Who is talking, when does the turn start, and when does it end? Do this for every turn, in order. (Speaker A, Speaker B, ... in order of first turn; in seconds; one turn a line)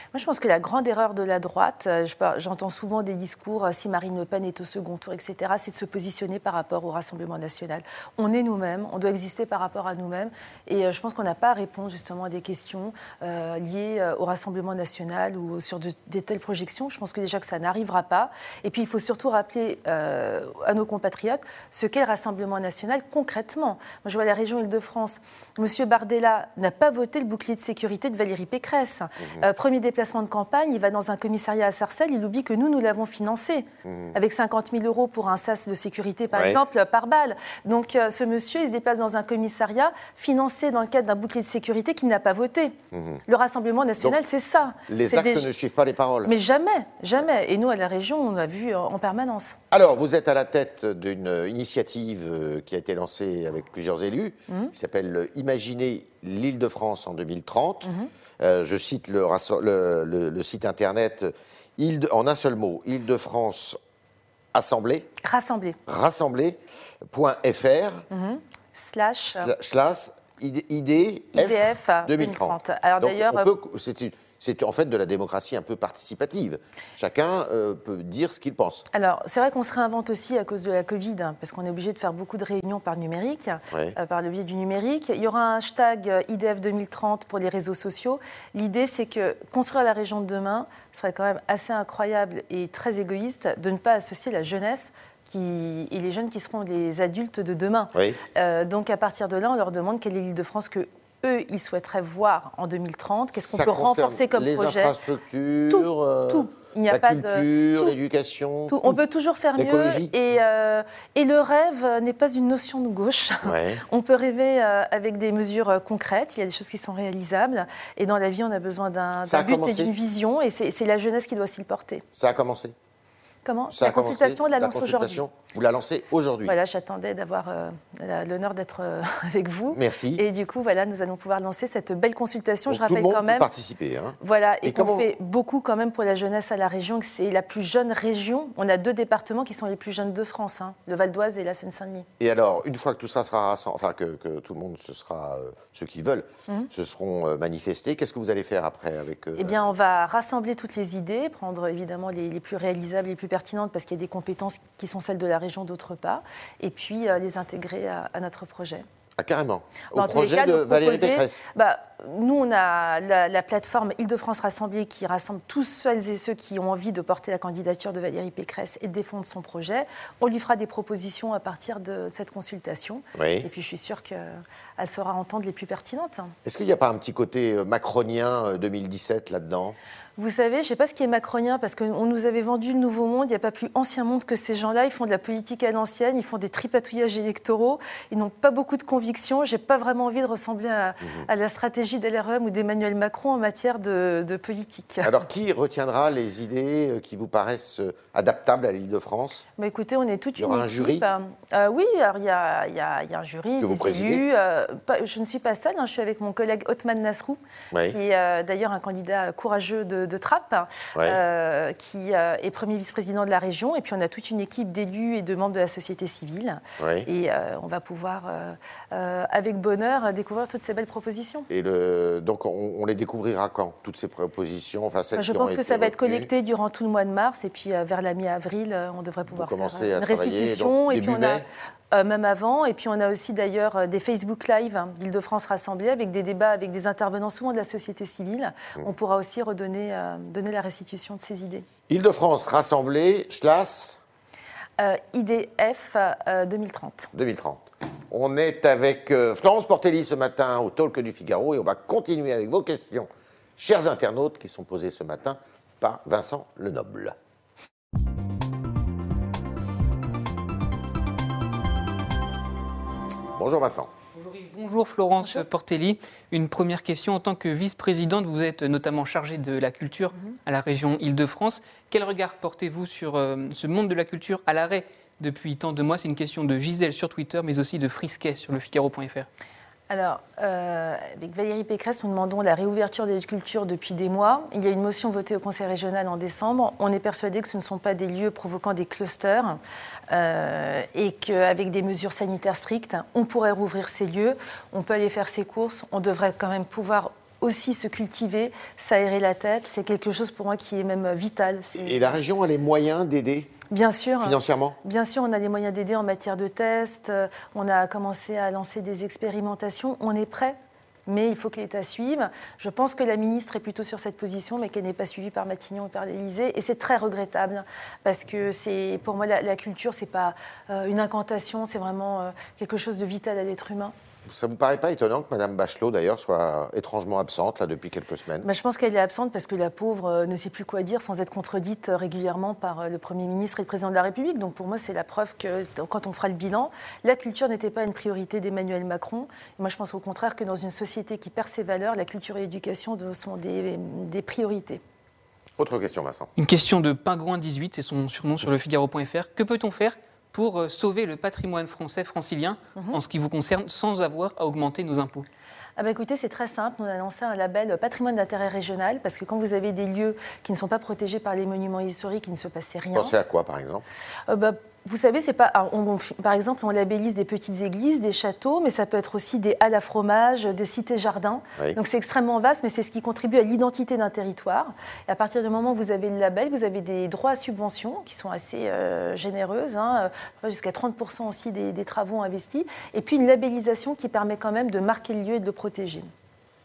Speaker A: 0.1-42.7
Speaker B: 33.9-34.1
Speaker B: 36.3-36.6
Speaker B: 42.9-43.2
Speaker A: 43.2-45.5
Speaker B: 44.9-46.3
Speaker A: 46.2-49.6
Speaker B: 49.7-63.8
Speaker B: 64.5-65.1
Speaker A: 65.2-65.8
Speaker B: 65.9-66.6
Speaker B: 67.1-68.0
Speaker A: 68.1-69.5
Speaker B: 69.3-78.9
Speaker A: 71.3-73.5
Speaker A: 78.9-105.0
Speaker B: 83.7-84.0
Speaker B: 97.9-98.2
Speaker B: 103.4-108.9
Speaker A: 105.7-108.0
Speaker A: 108.7-122.0
Speaker B: 109.6-110.1
Speaker B: 113.4-113.8
Speaker B: 119.2-119.9
Speaker B: 122.1-122.7
Speaker A: 123.5-125.2
Speaker B: 123.7-126.5
Speaker A: 126.5-133.5
Speaker B: 129.7-130.2
Speaker B: 132.7-135.1
Speaker A: 134.2-142.1
Speaker B: 142.2-149.6
Speaker A: 149.4-158.8
Speaker B: 159.2-161.4
Speaker A: 159.9-176.3
Speaker B: 173.1-173.5
Speaker B: 176.4-179.8
Speaker A: 180.2-195.1
Speaker B: 191.0-191.3
Speaker B: 195.0-199.5
Speaker A: 199.6-221.5
Speaker B: 200.4-201.1
Speaker B: 203.6-204.2
Speaker B: 207.7-208.0
Speaker B: 216.8-217.1
Speaker B: 221.5-226.3
Speaker A: 225.1-241.7
Speaker B: 229.3-231.5
Speaker B: 241.9-244.0
Speaker A: 244.8-247.1
Speaker B: 247.1-257.1
Speaker B: 263.3-263.9
Speaker C: 264.1-279.3
Speaker A: 279.9-289.6
Speaker A: 290.1-302.2
Speaker B: 301.8-303.6
Speaker A: 303.7-323.9
Speaker B: 304.2-304.8
Speaker B: 324.3-328.5
Speaker A: 328.4-344.8
Speaker B: 345.6-346.3
Speaker C: 346.4-355.2
Speaker A: 355.8-363.1
Speaker B: 362.9-363.9
Speaker A: 364.3-386.1